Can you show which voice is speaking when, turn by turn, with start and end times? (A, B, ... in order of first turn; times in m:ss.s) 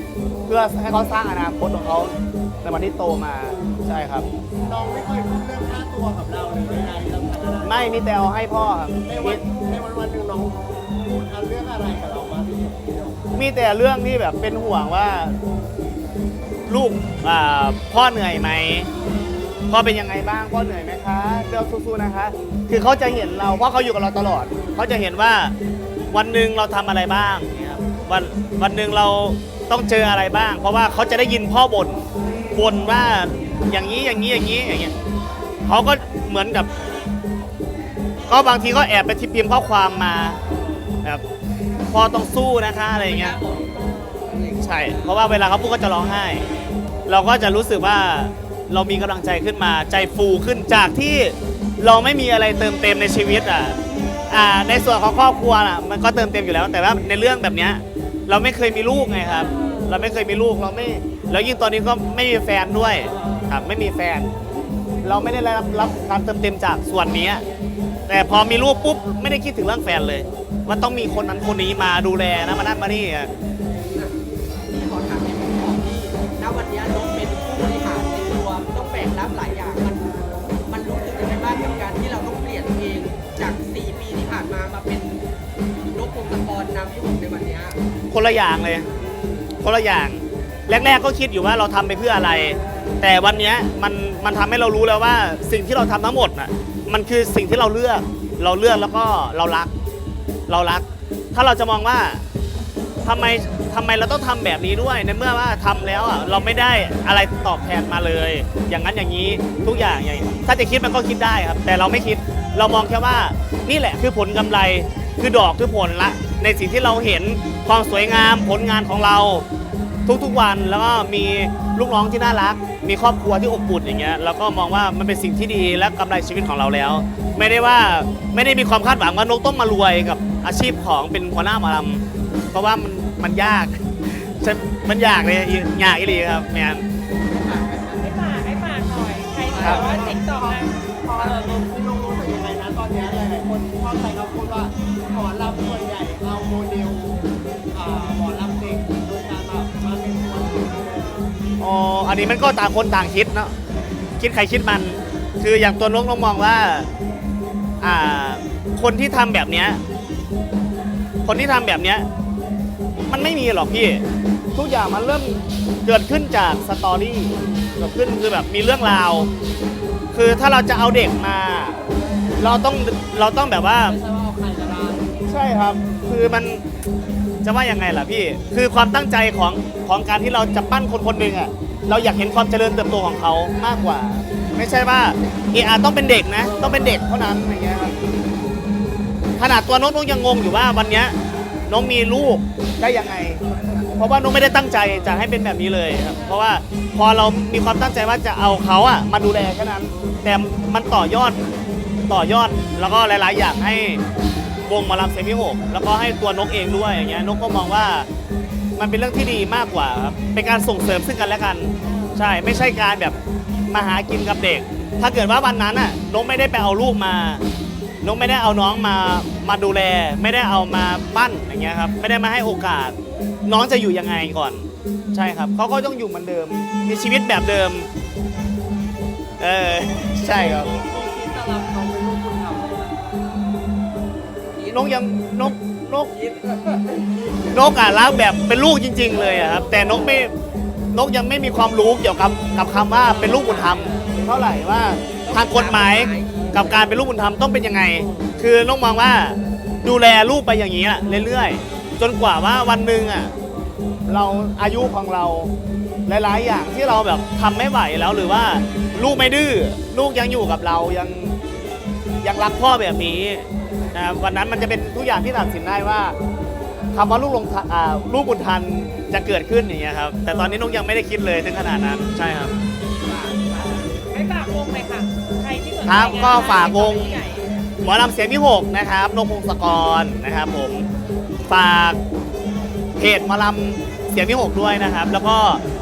0:00.5-0:04.3 A
0:04.5-0:08.0 B
0:07.6-0:09.4 A
0:09.0-0:13.3 B
0:13.3-0:15.4 A
0:16.7-0:18.9 A
0:19.7-0:25.5 A
0:26.1-0:34.9 A
0:35.6-0:36.7 A
0:38.3-0:40.4 A
0:41.9-0:43.4 A
0:42.9-0:45.3 C
0:44.6-0:46.5 A
0:47.1-1:04.3 A
0:59.6-0:59.8 B
1:03.0-1:03.5 B
1:05.0-1:07.4 A
1:08.1-1:13.3 A
1:13.9-1:20.1 C
1:20.7-1:25.2 C
1:25.8-1:27.8 C
1:28.1-1:28.9 A
1:29.0-1:29.5 C
1:29.6-1:39.7 A
1:40.5-1:42.2 A
1:43.0-1:59.4 A
2:00.1-2:16.8 A
2:17.2-2:18.1 C
2:18.0-2:21.5 D
2:19.4-2:20.2 C
2:19.6-2:31.3 B
2:19.6-2:19.8 A
2:31.6-2:33.5 A
2:34.2-2:36.9 A
2:37.8-2:39.8 A
2:41.2-2:42.1 A
2:43.1-2:44.0 A
2:44.5-2:49.3 A
2:50.1-2:51.8 A
2:52.4-2:54.0 A
2:53.8-2:55.2 B
2:55.3-2:56.6 A
2:57.4-3:07.9 A
3:06.4-3:07.0 B
3:09.4-3:11.1 A
3:11.7-3:13.4 A
3:13.4-3:14.0 B
3:14.0-3:21.4 A
3:14.9-3:15.2 B
3:22.1-3:24.0 A
3:24.6-3:28.1 A
3:28.8-3:33.2 A
3:33.7-3:37.4 A
3:38.0-3:47.9 A
3:49.4-3:50.7 A
3:50.2-3:53.0 B
3:54.5-3:54.9 C
3:54.7-3:56.1 A
3:56.1-3:56.8 C
3:57.5-4:00.3 A
4:00.9-4:13.3 A
4:05.2-4:06.9 C
4:14.0-4:15.5 A
4:16.1-4:21.3 A
4:22.2-4:26.2 A
4:26.9-4:32.5 A
4:33.0-4:33.9 C
4:34.1-4:37.5 D
4:35.8-4:37.2 A
4:37.8-4:40.9 A
4:41.5-4:42.0 A
4:43.0-4:45.6 A